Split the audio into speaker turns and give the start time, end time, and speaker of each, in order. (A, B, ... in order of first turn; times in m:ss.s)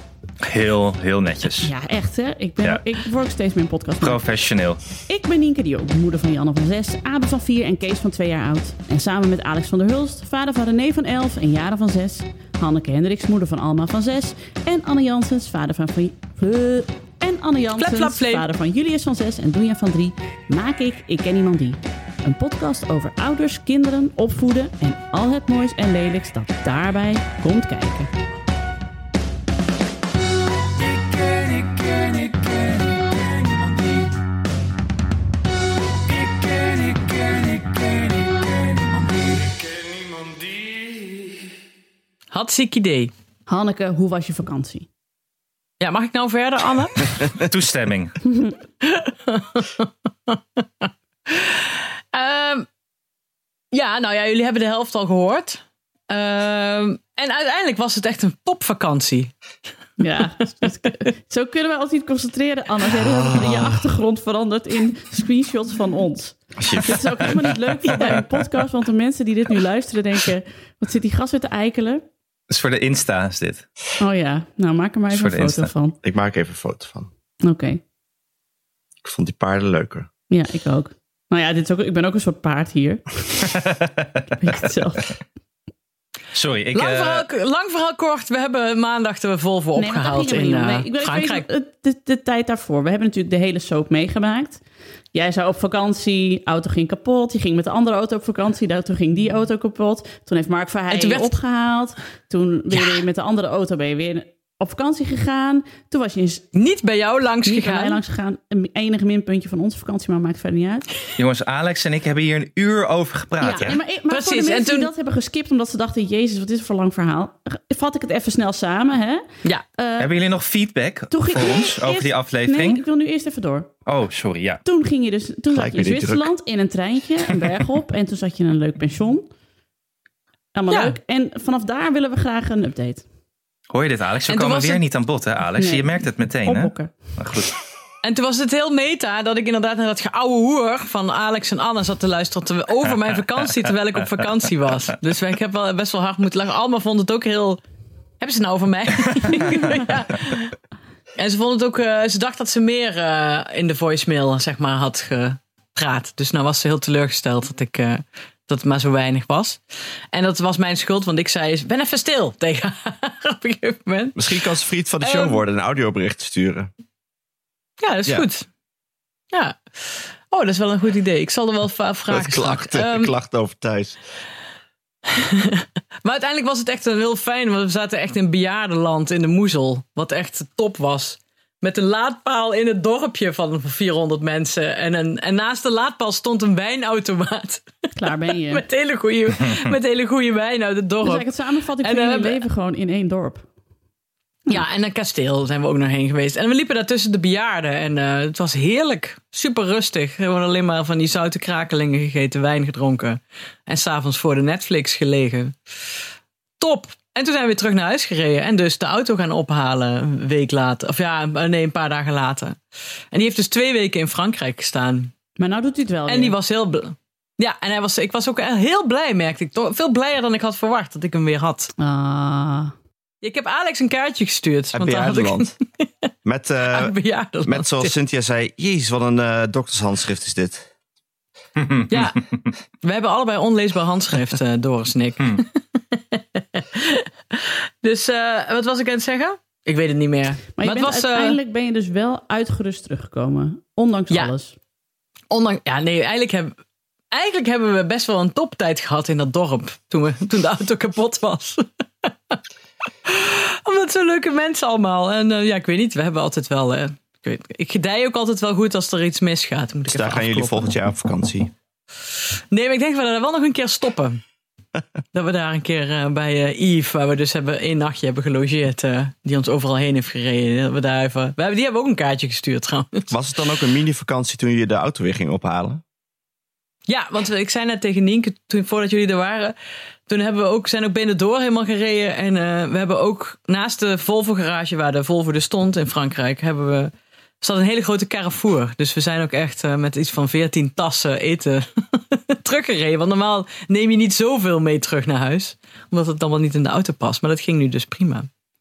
0:00.4-0:01.7 A
0:01.6-0:04.2 B
0:04.0-0:04.8 A
0:05.1-0:28.1 B
0:17.8-0:18.5 C
0:36.3-0:37.8 C
0:38.9-0:39.2 C
0:40.6-0:41.0 D
0:42.3-0:43.1 C
0:43.5-0:44.9 B
0:45.8-0:47.1 C
0:47.3-0:48.2 A
0:48.3-0:48.6 B
0:48.8-0:52.7 C
0:53.7-0:59.3 C
1:00.0-1:12.0 B
1:03.1-1:03.7 D
1:06.7-1:08.1 A
1:12.5-1:13.7 A
1:14.0-1:16.0 B
1:15.1-1:15.7 A
1:16.0-1:17.1 D
1:17.4-1:17.8 B
1:19.0-1:20.1 D
1:20.3-1:23.6 B
1:23.4-1:24.2 A
1:24.4-1:25.2 B
1:26.3-1:27.3 A
1:26.7-1:31.5 C
1:29.8-1:34.6 B
1:35.1-1:46.5 B
1:40.9-1:41.3 C
1:46.5-1:48.0 C
1:47.4-1:50.9 B
1:51.2-1:53.8 A
1:53.4-2:00.1 B
1:53.6-1:54.9 C
2:00.0-2:02.8 A
2:01.1-2:03.7 B
2:03.9-2:04.6 A
2:04.6-2:09.3 B
2:05.5-2:06.3 D
2:10.5-2:13.0 B
2:10.7-2:11.0 C
2:13.7-2:17.6 A
2:14.3-2:14.8 C
2:15.6-2:17.0 B
2:18.0-2:27.6 C
2:28.2-2:30.6 C
2:31.2-2:39.6 C
2:40.1-2:44.4 C
2:44.2-2:46.7 D
2:45.0-2:45.4 C
2:47.8-2:48.5 C
2:49.3-2:53.1 C
2:52.1-2:54.0 D
2:55.1-3:11.3 C
3:08.0-3:08.6 B
3:11.0-3:13.5 B
3:11.8-3:12.4 C
3:14.5-3:25.6 C
3:26.6-3:32.6 C
3:33.1-3:35.1 C
3:35.4-3:36.4 B
3:36.1-3:41.7 C
3:41.8-3:42.7 B
3:43.2-3:45.9 C
3:44.7-3:45.5 D
3:46.2-3:50.7 D
3:46.7-3:47.9 C
3:51.9-3:52.2 C
3:52.8-4:01.4 C
4:00.6-4:04.6 B
4:05.3-4:06.6 C
4:07.1-4:12.4 C
4:13.0-4:20.7 C
4:19.9-4:21.5 D
4:22.5-4:24.2 C
4:25.1-4:33.1 C
4:33.1-4:35.8 D
4:36.9-4:39.5 C
4:40.1-4:58.3 C